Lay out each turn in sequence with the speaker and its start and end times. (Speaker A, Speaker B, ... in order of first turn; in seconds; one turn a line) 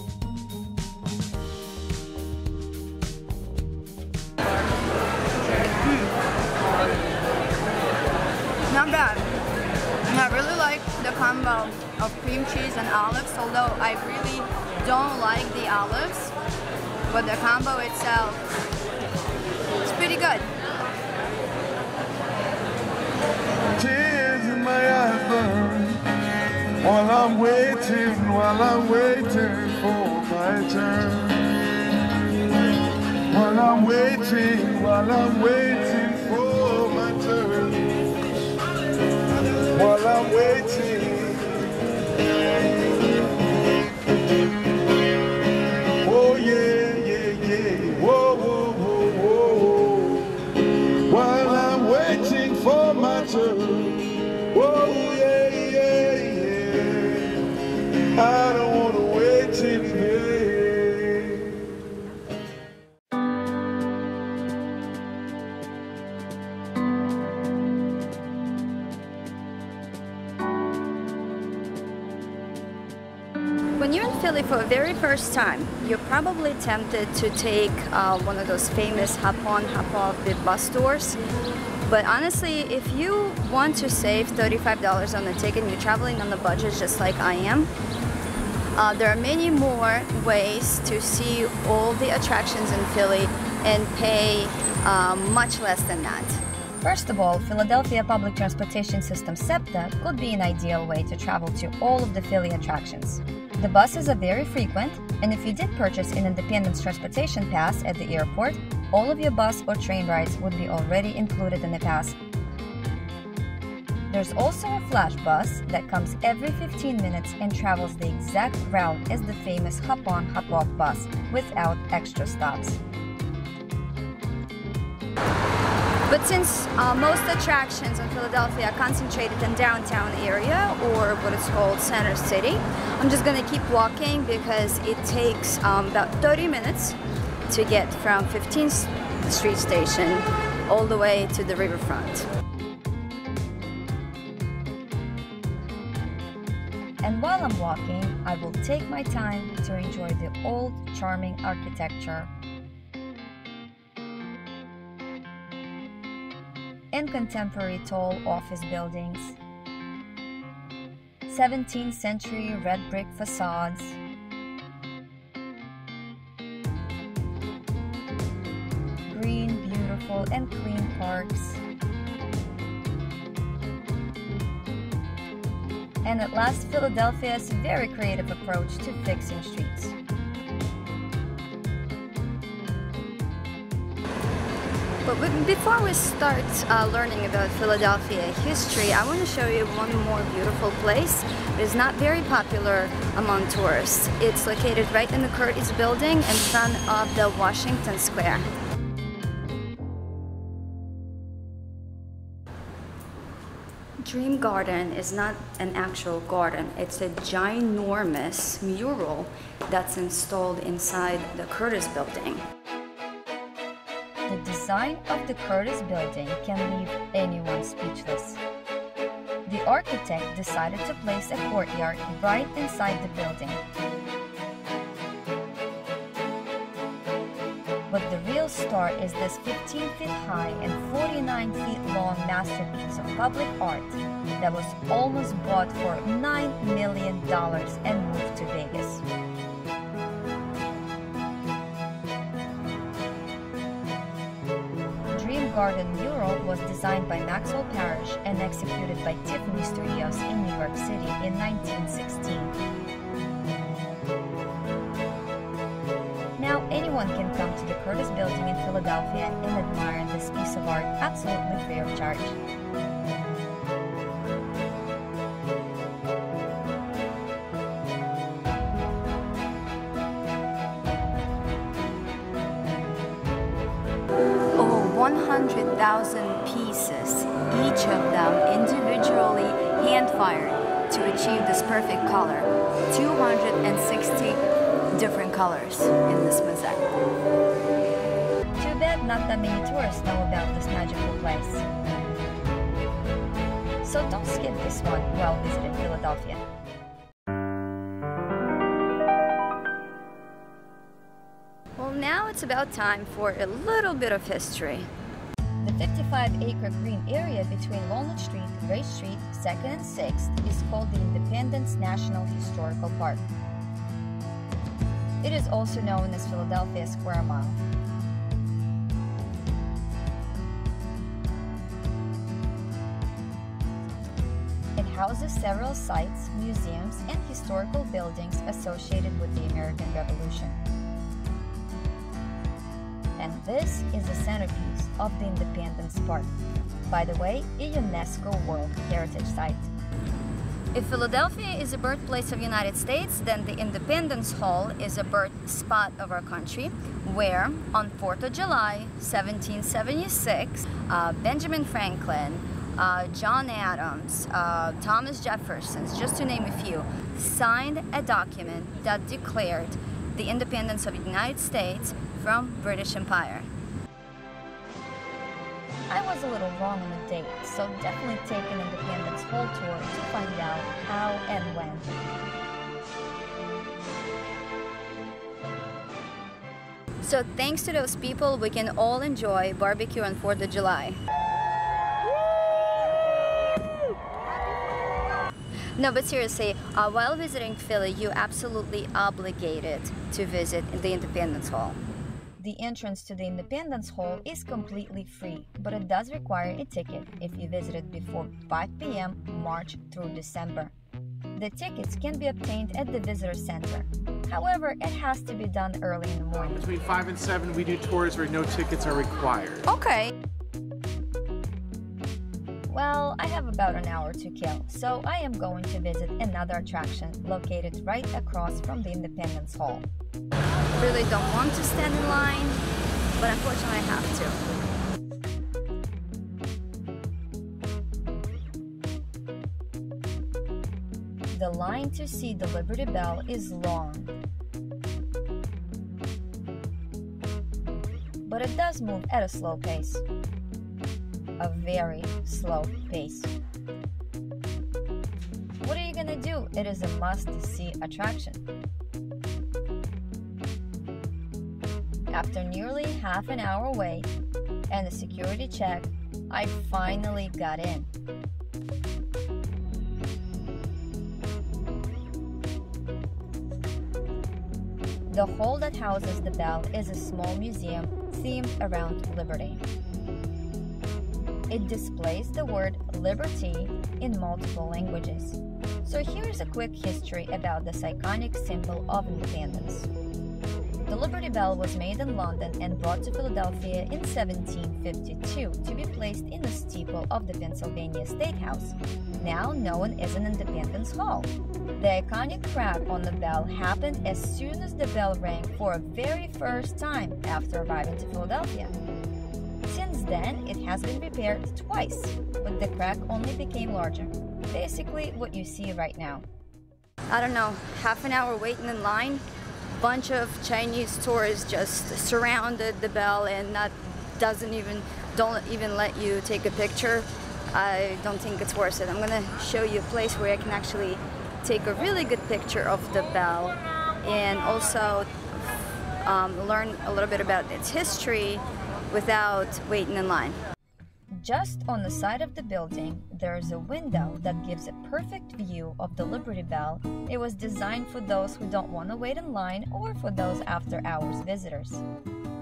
Speaker A: 5.8-6.2
Speaker A: 8.7-9.3
Speaker A: 10.1-16.3
Speaker A: 17.1-18.5
Speaker A: 19.8-20.5
Speaker B: 23.7-26.0
Speaker B: 26.8-31.5
Speaker B: 33.3-38.0
Speaker B: 39.6-43.2
Speaker B: 45.7-57.5
Speaker B: 58.1-61.8
Speaker A: 73.8-81.2
Speaker A: 81.8-87.7
Speaker A: 88.7-96.4
Speaker C: 96.8-112.2
Speaker C: 114.1-122.8
Speaker A: 126.1-136.9
Speaker A: 137.5-142.3
Speaker C: 147.0-152.3
Speaker C: 156.9-159.4
Speaker C: 161.3-164.0
Speaker C: 169.1-171.6
Speaker C: 176.0-179.9
Speaker A: 185.0-198.5
Speaker A: 204.0-212.4
Speaker C: 214.2-218.4
Speaker C: 219.4-223.6
Speaker C: 227.9-239.0
Speaker C: 245.1-252.5
Speaker C: 256.4-262.4
Speaker A: 274.5-286.9
Speaker C: 288.6-291.6
Speaker C: 293.8-296.4
Speaker A: 301.8-304.9
Speaker C: 305.6-313.3
Speaker C: 315.2-317.6
Speaker C: 324.8-330.6
Speaker C: 333.2-336.3
Speaker C: 336.9-339.7
Speaker A: 340.7-363.5
Speaker C: 365.9-371.9
Speaker A: 377.0-381.0
Speaker A: 385.8-391.8
Speaker C: 392.4-400.7
Speaker C: 401.3-406.7
Speaker D: 406.5-409.6
Speaker A: 409.7-410.1
Speaker C: 412.7-419.9
Speaker A: 420.8-422.6
Speaker A: 423.2-424.4
Speaker C: 431.3-434.1
Speaker C: 438.2-440.0
Speaker C: 441.4-443.3
Speaker C: 445.6-448.4
Speaker C: 452.1-454.1
Speaker C: 454.7-457.9
Speaker C: 465.1-469.6
Speaker C: 471.5-479.9
Speaker C: 480.9-498.7
Speaker C: 499.7-506.2
Speaker A: 507.1-509.2
Speaker A: 509.7-525.2
Speaker A: 526.0-530.4
Speaker C: 531.1-541.8